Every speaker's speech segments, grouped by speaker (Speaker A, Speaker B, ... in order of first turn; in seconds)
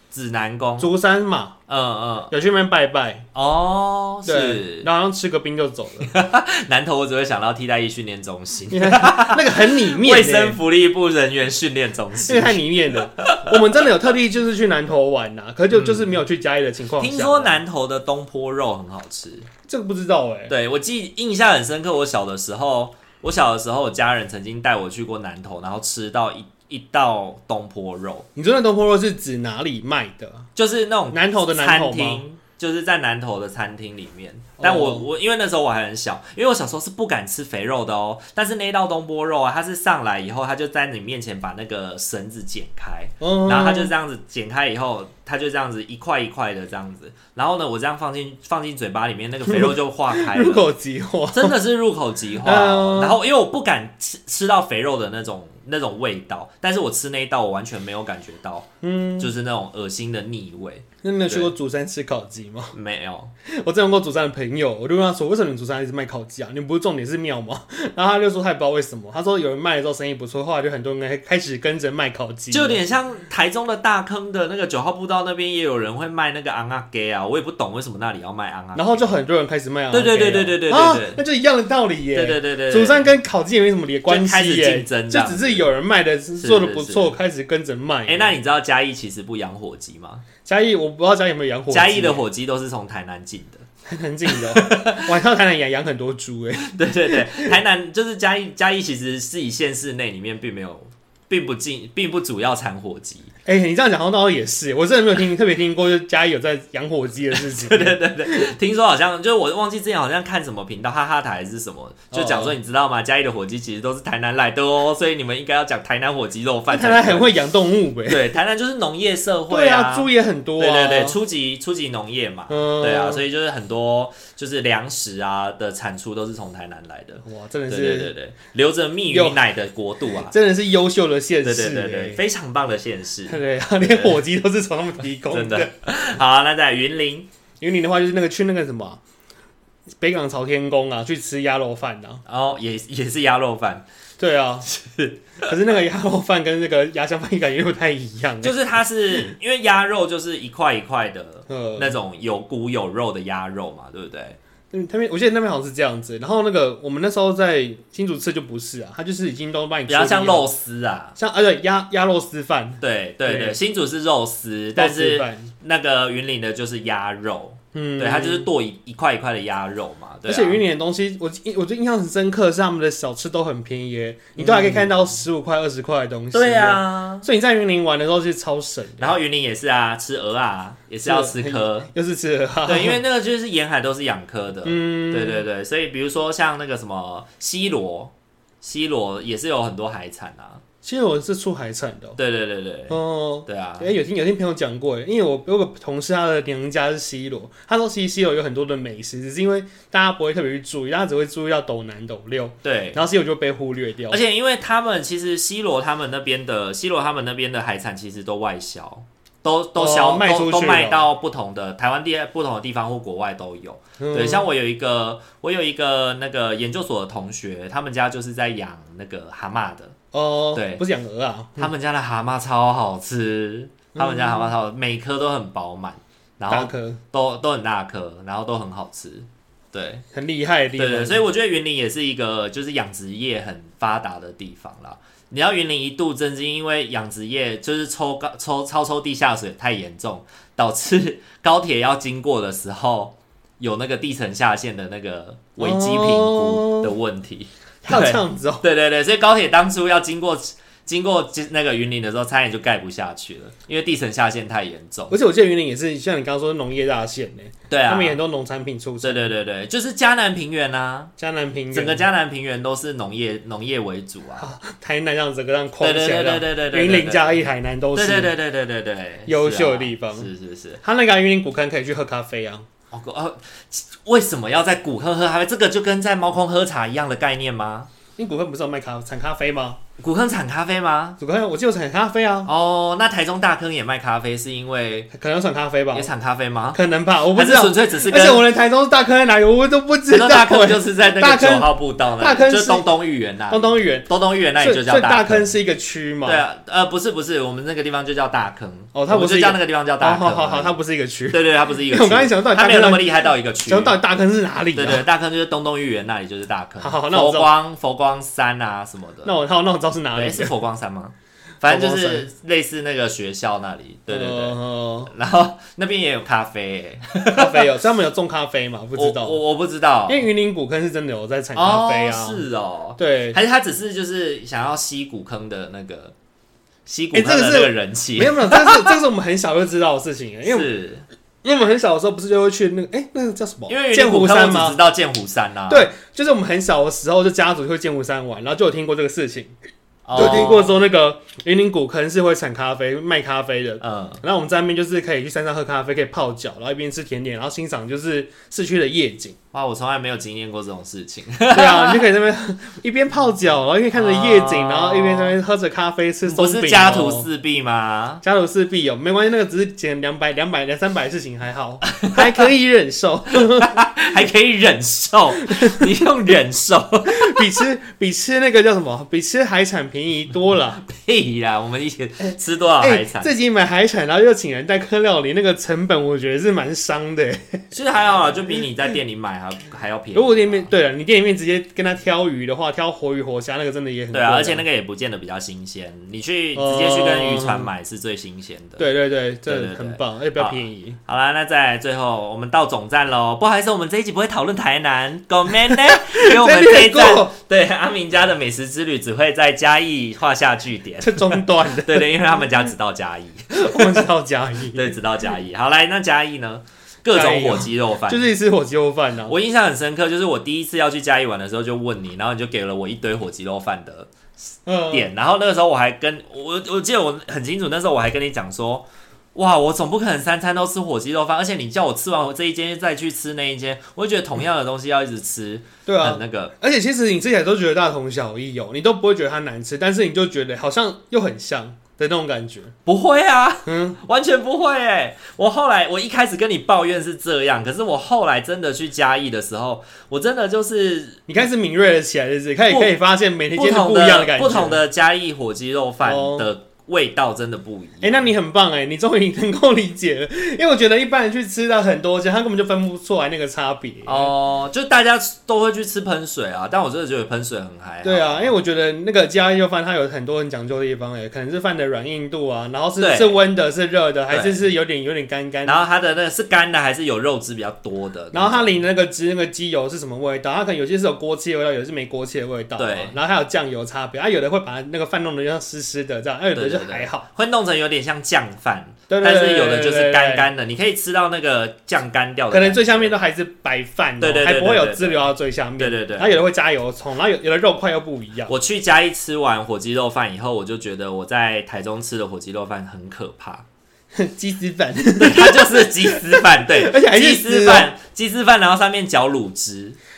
Speaker A: 0.1-0.9, 1.7-2.3, 3.3-4.9, 6.0-13.8, 15.7-16.2, 17.0-19.5, 20.5-28.3, 30.6-50.7, 51.3-61.5, 62.7-63.3, 72.5-79.2, 79.9-81.2, 82.1-83.1, 84.1-85.6, 86.4-87.1, 88.0-90.2, 91.7-93.6, 94.3-95.1, 96.6-103.3, 107.3-117.3, 118.1-130.3, 131.4-134.2, 135.3-137.3, 142.2-143.8, 144.7-145.5, 148.4-154.4, 159.9-161.2, 162.8-170.6, 174.4-175.1, 176.3-177.3, 179.0-181.9, 182.7-190.6, 192.2-193.9, 202.6-203.0, 204.1-220.0, 220.5-220.8, 221.6-230.0, 230.8-255.2, 257.7-258.2, 259.0-261.1, 261.7-264.5, 265.8-270.8, 272.9-277.9, 280.0-281.2, 282.4-285.1, 285.9-286.8, 287.3-288.4, 290.1-295.5, 296.2-300.8, 301.3-304.0, 304.7-309.4, 310.1-317.7, 318.9-320.2, 321.5-326.1, 326.9-328.9, 330.4-331.1, 333.7-335.9, 340.1-340.8, 343.8-344.2, 349.5-352.0, 353.9-355.4, 356.2-358.2, 361.9-362.4, 363.4-367.5, 370.8-373.3, 377.7-380.7, 384.1-388.9, 389.4-404.0, 404.7-408.3, 409.3-426.5, 432.9-441.2, 443.5-448.3, 454.0-458.5, 463.0-463.4, 464.3-464.6, 465.6-468.8, 472.8-473.1, 476.5-483.1, 484.2-486.4, 488.5-493.6, 495.2-500.0
Speaker B: 0.8-1.6, 2.3-3.2, 4.2-6.1, 8.7-10.6, 12.2-17.6, 19.7-20.5, 28.4-30.5, 31.1-32.2, 34.6-35.1, 43.2-43.9, 49.5-51.6, 52.4-53.2, 58.8-59.3, 61.0-62.7, 63.5-72.8, 78.7-88.3, 90.4-92.2, 93.8-97.5, 103.5-108.5, 112.1-112.5, 116.7-118.2, 119.5-121.2, 122.5-123.2, 127.2-128.1, 129.1-129.4, 130.2-132.2, 133.3-135.7, 137.6-139.0, 140.0-142.2, 144.2-144.7, 145.4-148.5, 151.5-151.9, 154.7-160.5, 161.2-163.6, 164.8-165.5, 167.7-168.5, 170.2-179.2, 181.0-183.0, 184.6-185.5, 190.8-192.2, 192.9-204.2, 209.8-211.1, 214.0-214.4, 220.1-221.7, 223.9-224.5, 226.5-227.0, 230.1-231.2, 245.6-246.9, 247.8-248.6, 255.1-259.3, 261.2-262.0, 264.4-268.3, 269.2-270.3, 270.8-272.6, 278.2-279.8, 281.2-282.5, 285.1-286.1, 286.7-292.9, 293.5-296.4, 298.9-305.0, 306.8-307.5, 309.2-310.5, 311.7-312.3, 314.1-315.1, 317.3-319.4, 320.1-322.4, 323.0-323.4, 327.1-330.7, 331.4-334.8, 335.7-339.5, 340.1-349.4, 351.5-357.3, 358.2-363.8, 365.6-365.8, 367.1-370.8, 372.3-377.7, 380.1-384.6, 386.5-387.7, 388.8-391.0, 395.7-397.3, 401.0-402.5, 403.5-405.0, 407.1-409.3, 414.6-415.1, 425.9-432.7, 433.6-434.0, 441.3-444.8, 446.0-446.5, 448.0-454.3, 458.0-465.8, 468.3-477.2, 479.1-480.5, 482.5-488.5, 494.1-497.9